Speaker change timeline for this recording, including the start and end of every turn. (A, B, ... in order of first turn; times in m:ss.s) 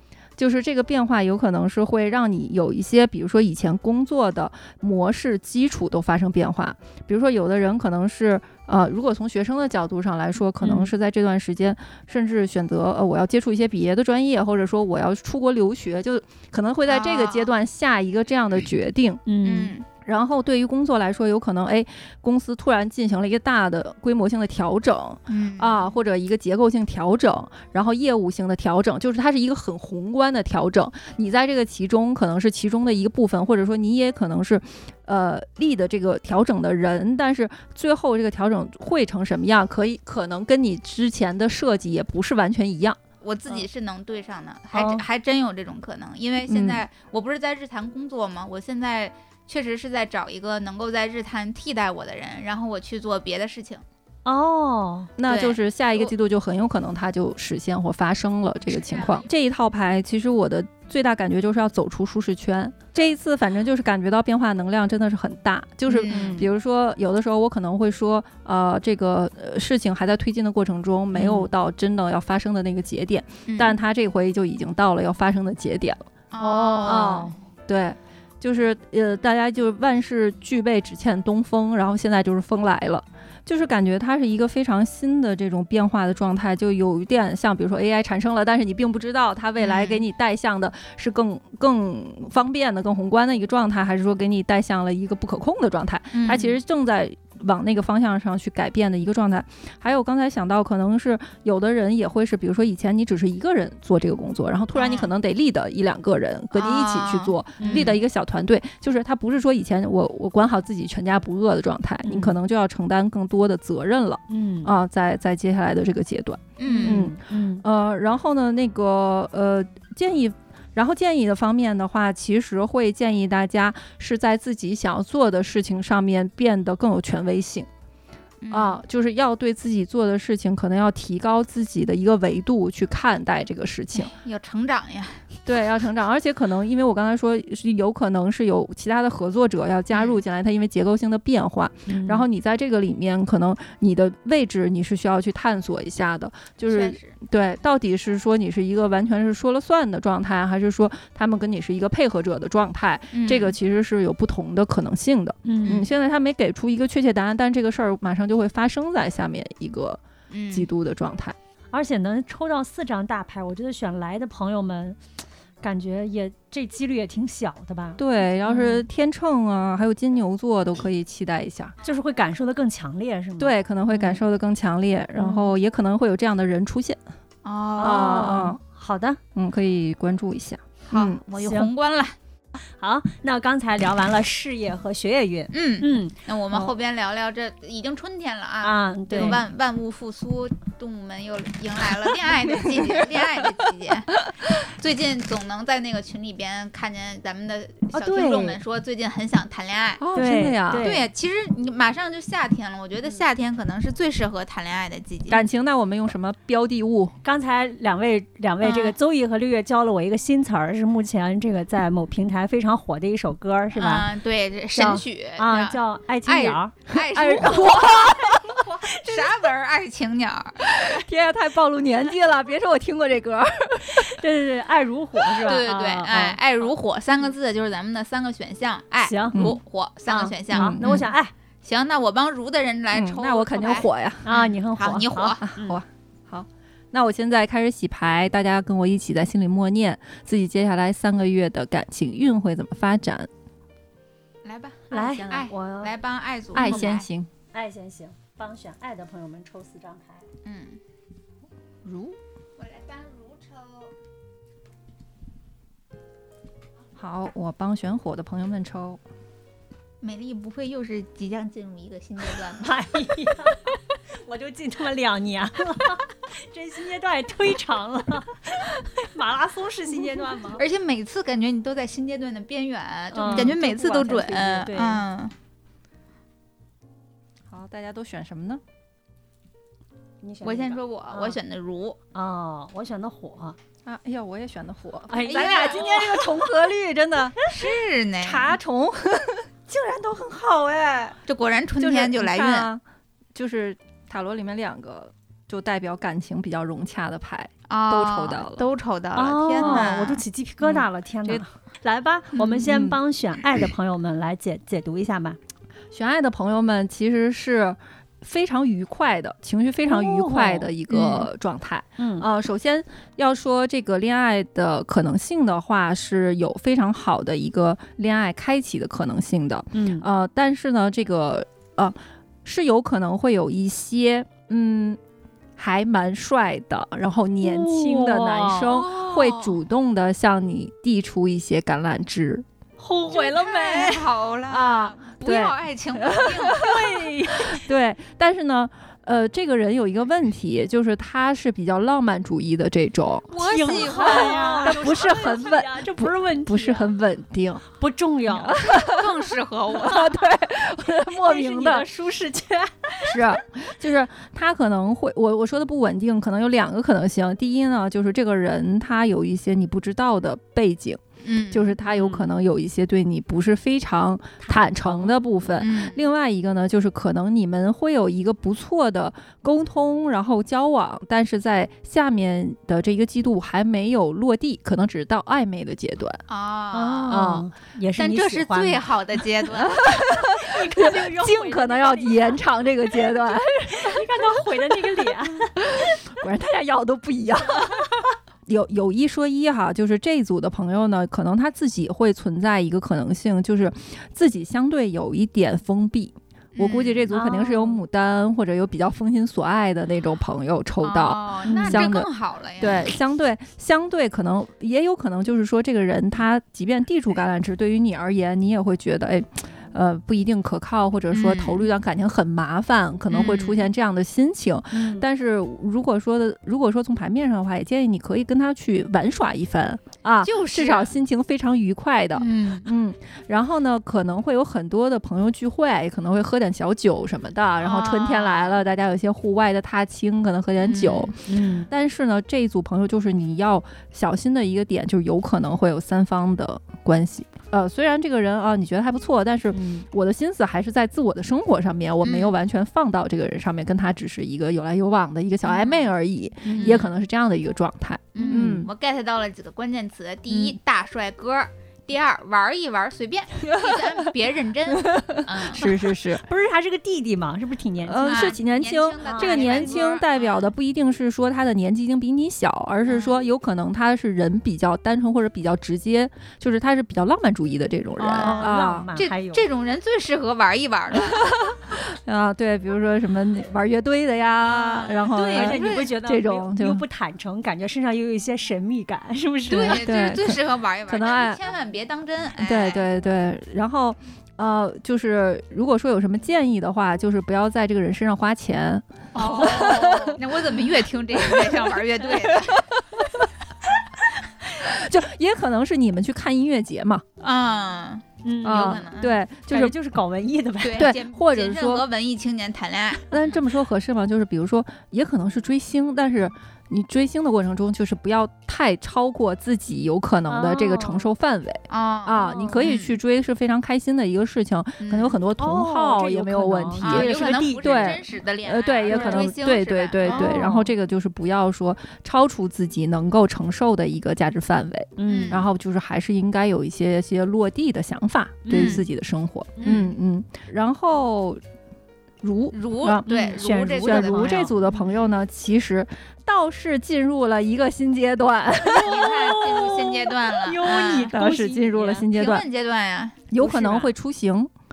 0:00.4-0:19.2 A
0:10.6-0:10.9 B
0:16.9-0:17.5 C
0:19.3-0:19.7 B
0:19.4-0:19.9 C
0:20.0-0:43.0 A
0:25.3-0:26.0 C
0:43.2-0:53.8 C
0:44.7-0:45.0 B
0:46.5-0:46.8 A
0:54.2-0:55.1 B
0:55.2-1:16.0 A
0:55.3-0:56.1 C
0:58.7-0:59.3 C
1:05.9-1:06.4 C
1:06.0-1:06.4 B
1:11.2-1:11.5 B
1:13.5-1:13.8 C
1:16.3-1:17.3 C
1:16.4-1:17.4 B
1:16.8-2:07.7 A
1:29.6-1:30.0 C
1:36.1-1:36.6 C
1:44.8-1:45.1 C
1:46.5-1:47.9 C
1:47.6-1:48.0 B
1:52.0-1:52.4 B
1:54.3-1:54.7 B
1:56.6-1:57.0 C
1:56.6-1:57.6 B
2:08.4-2:08.8 C
2:08.5-2:14.1 A
2:14.1-2:15.2 C
2:15.4-2:41.4 A
2:19.9-2:20.2 C
2:21.9-2:22.3 B
2:26.7-2:27.2 C
2:33.1-2:33.6 C
2:35.5-2:35.8 B
2:40.3-2:40.7 C
2:41.7-2:45.0 B
2:45.6-2:48.9 B
2:48.0-2:51.8 A
2:51.8-2:54.2 B
2:53.4-2:57.0 A
2:55.2-2:55.5 B
2:57.4-2:58.4 C
2:57.8-2:59.2 B
2:57.8-2:58.6 A
2:59.4-3:01.2 A
3:00.9-3:02.2 C
3:01.4-3:01.7 B
3:02.8-3:06.2 B
3:05.5-3:20.0 C
3:08.6-3:09.4 B
3:12.6-3:13.1 A
3:17.9-3:18.6 B
3:20.0-3:20.9 A
3:20.2-3:21.1 B
3:20.8-3:25.4 C
3:25.3-3:27.2 A
3:27.2-3:34.1 B
3:28.6-3:29.0 C
3:33.8-3:40.9 C
3:34.8-3:38.1 B
3:37.1-3:38.4 A
3:40.6-3:44.2 A
3:43.9-3:46.4 B
3:45.4-3:51.1 C
3:49.0-3:49.5 B
3:49.3-3:49.6 A
3:50.1-3:51.3 B
3:50.5-3:51.1 A
3:51.6-3:55.4 C
3:52.9-3:54.3 A
3:54.2-3:55.8 B
3:55.4-4:03.3 A
4:04.4-4:07.1 C
4:04.9-4:05.9 B
4:06.5-4:07.3 A
4:06.6-4:06.9 B
4:07.5-4:10.3 B
4:10.4-4:10.8 C
4:11.8-4:12.2 A
4:12.6-4:13.9 C
4:17.0-4:19.0 A
4:20.0-4:22.8 C
4:22.6-4:30.6 B
4:30.5-4:35.3 C
4:33.1-4:35.0 B
4:33.2-4:34.2 A
4:37.5-4:38.6 A
4:40.2-4:41.4 B
4:40.4-4:42.0 C
4:42.1-4:43.6 B
4:43.8-4:47.4 A
4:45.1-4:46.5 B
4:45.2-4:46.1 C
4:47.5-4:48.6 C
4:48.2-4:51.2 A
4:51.3-4:52.7 C
4:51.8-4:52.8 A
4:53.3-4:58.7 A
4:57.7-5:00.2 C
4:59.2-5:05.4 B
4:59.6-4:59.9 A
5:02.4-5:02.6 C
5:02.6-5:03.0 A
5:05.9-5:25.0 A
5:09.9-5:10.7 B
5:10.9-5:11.3 C
5:12.0-5:12.3 B
5:19.7-5:20.1 B
5:25.6-5:32.5 A
5:27.4-5:28.8 B
5:28.7-5:29.6 C
5:32.8-5:34.1 B
5:33.1-5:36.8 C
5:34.5-5:36.8 A
5:36.6-5:37.6 B
5:37.4-5:47.6 A
5:43.3-5:44.9 C
5:43.4-5:46.9 B
5:47.8-5:48.6 B
5:48.3-5:51.9 A
5:48.6-5:50.1 C
5:50.8-5:53.3 B
5:53.0-6:16.2 A
6:01.2-6:01.8 C
6:01.8-6:02.3 B
6:04.4-6:05.2 B
6:05.6-6:06.0 C
6:16.3-6:17.3 C
6:16.7-6:18.9 B
6:17.1-6:17.5 A
6:18.0-6:19.8 C
6:19.5-6:24.3 A
6:20.1-6:22.4 B
6:23.7-6:25.6 B
6:25.6-6:42.1 A
6:36.6-6:37.1 C
6:37.1-6:37.8 B
6:40.8-6:42.9 C
6:41.5-6:41.9 B
6:42.6-7:28.7 A
6:51.1-6:51.7 C
6:53.1-6:53.7 C
6:54.7-6:55.0 B
7:00.2-7:00.9 C
7:02.2-7:02.7 C
7:07.6-7:08.6 C
7:10.6-7:11.1 C
7:11.2-7:11.7 B
7:19.5-7:19.9 B
7:22.0-7:22.3 C
7:25.4-7:25.9 C
7:26.4-7:26.8 B
7:26.5-7:26.9 C
7:28.2-7:35.7 C
7:28.2-7:28.6 B
7:33.5-7:34.1 A
7:34.7-7:36.2 A
7:36.2-7:38.4 B
7:37.8-7:48.9 A
7:38.0-7:40.5 C
7:39.0-7:39.8 B
7:42.9-7:43.2 C
7:48.0-7:51.4 C
7:48.2-7:49.4 B
7:51.0-7:56.8 A
7:54.4-7:55.9 C
7:55.1-7:59.8 B
7:59.5-8:02.9 C
7:59.5-8:01.4 A
8:02.4-8:10.4 A
8:09.2-8:12.7 C
8:09.2-8:09.8 B
8:11.2-8:13.1 A
8:14.6-8:17.1 A
8:17.2-8:19.2 C
8:18.2-8:18.8 B
8:18.4-8:19.8 A
8:19.5-8:20.9 B
8:20.6-8:23.4 C
8:20.7-8:21.8 A
8:23.1-8:51.4 A
8:30.3-8:31.1 B
8:31.7-8:33.0 C
8:32.3-8:32.6 B
8:34.8-8:35.2 C
8:35.4-8:38.0 B
8:36.8-8:40.5 C
8:38.9-8:39.3 B
8:40.1-8:40.7 B
8:45.0-8:45.4 B
8:45.1-8:45.5 C
8:48.4-8:48.8 B
8:48.5-8:48.8 C
8:49.6-8:49.9 B
8:49.6-8:49.9 C
8:52.2-8:59.3 A
8:52.5-8:54.6 C
8:53.1-8:54.7 B
8:58.6-9:02.1 B
8:58.8-9:01.2 C
9:00.7-9:02.5 A
9:02.1-9:03.3 C
9:03.3-9:04.5 A
9:03.4-9:03.9 B